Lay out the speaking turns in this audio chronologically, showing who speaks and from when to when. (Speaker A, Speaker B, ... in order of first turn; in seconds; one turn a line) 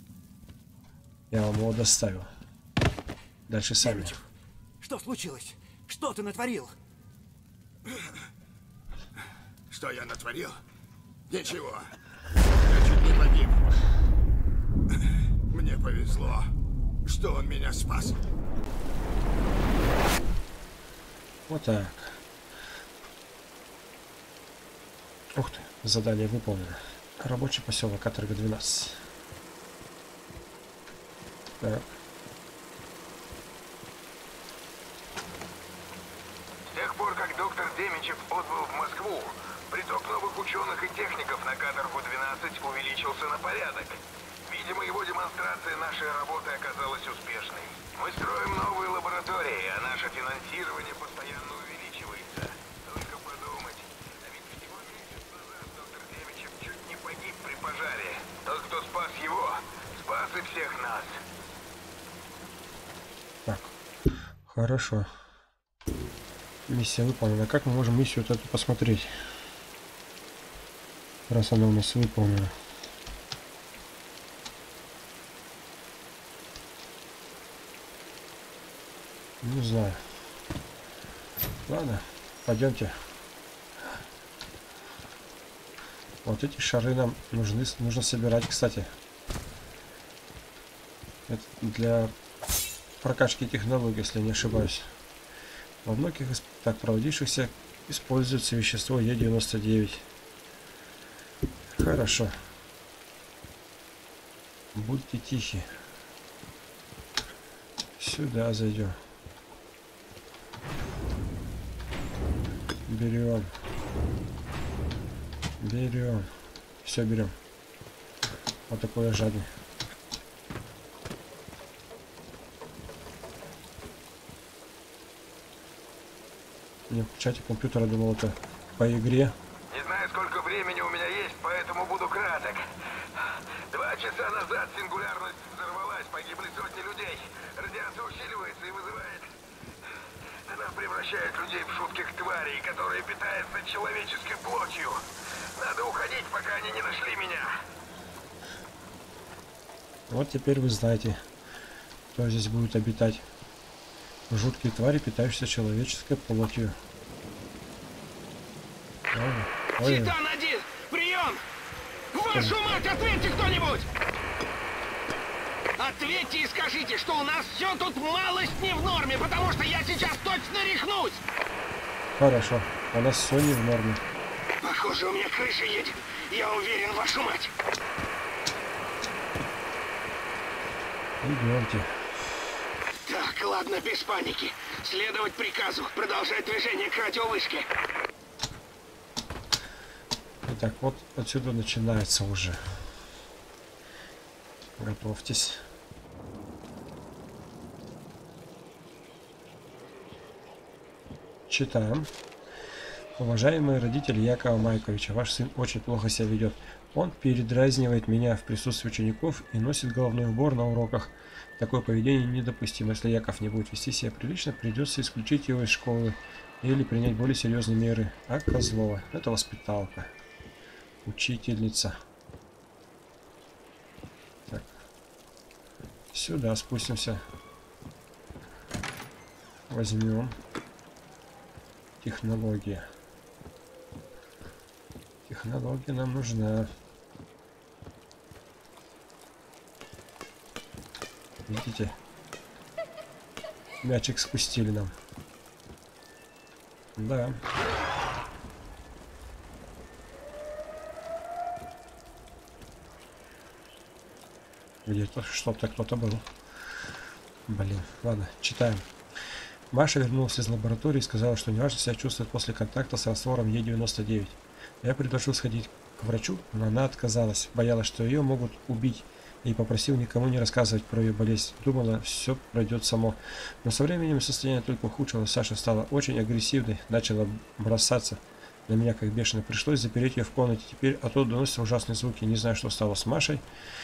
Speaker A: 1.3-2.3
Speaker A: 3.5-4.2
Speaker B: 3.8-4.2
Speaker B: 4.8-6.7
Speaker C: 9.7-10.6
Speaker C: 11.3-11.9
Speaker C: 12.6-13.6
Speaker C: 15.5-16.5
Speaker C: 17.0-18.2
Speaker A: 21.5-22.2
Speaker A: 25.4-29.0
Speaker A: 31.6-31.9
Speaker D: 36.7-61.2
Speaker A: 63.5-63.7
Speaker A: 64.5-65.1
Speaker A: 66.7-69.1
Speaker A: 71.3-72.5
Speaker A: 79.4-80.0
Speaker A: 81.7-82.9
Speaker A: 86.2-88.9
Speaker A: 91.3-92.1
Speaker A: 93.0-94.9
Speaker A: 95.8-100.0
Speaker A: 101.8-102.3
Speaker A: 104.7-105.7
Speaker A: 108.0-109.0
Speaker A: 112.9-113.5
Speaker A: 115.6-116.3
Speaker A: 116.8-117.3
Speaker A: 118.7-119.5
Speaker A: 126.9-129.3
Speaker D: 129.7-132.6
Speaker D: 133.2-139.3
Speaker D: 140.5-145.0
Speaker D: 145.6-147.5
Speaker A: 150.1-151.2
Speaker A: 152.1-153.2
Speaker A: 154.3-156.8
Speaker A: 159.1-160.1
Speaker E: 159.8-161.4
Speaker E: 162.1-163.9
Speaker E: 165.8-171.2
Speaker A: 172.2-174.0
Speaker E: 174.6-177.5
Speaker A: 181.2-181.9
Speaker E: 183.0-187.7
Speaker A: 190.4-192.6
Speaker A: 194.8-195.6
Speaker A: 201.5-202.1
Speaker A: 203.2-220.1
Speaker A: 221.0-221.9
Speaker A: 226.1-227.2
Speaker A: 229.7-230.3
Speaker A: 232.0-232.9
Speaker A: 235.2-236.7
Speaker A: 241.5-241.9
Speaker A: 243.8-244.9
Speaker A: 247.0-247.4
Speaker A: 254.8-256.2
Speaker A: 257.5-258.8
Speaker A: 259.7-283.4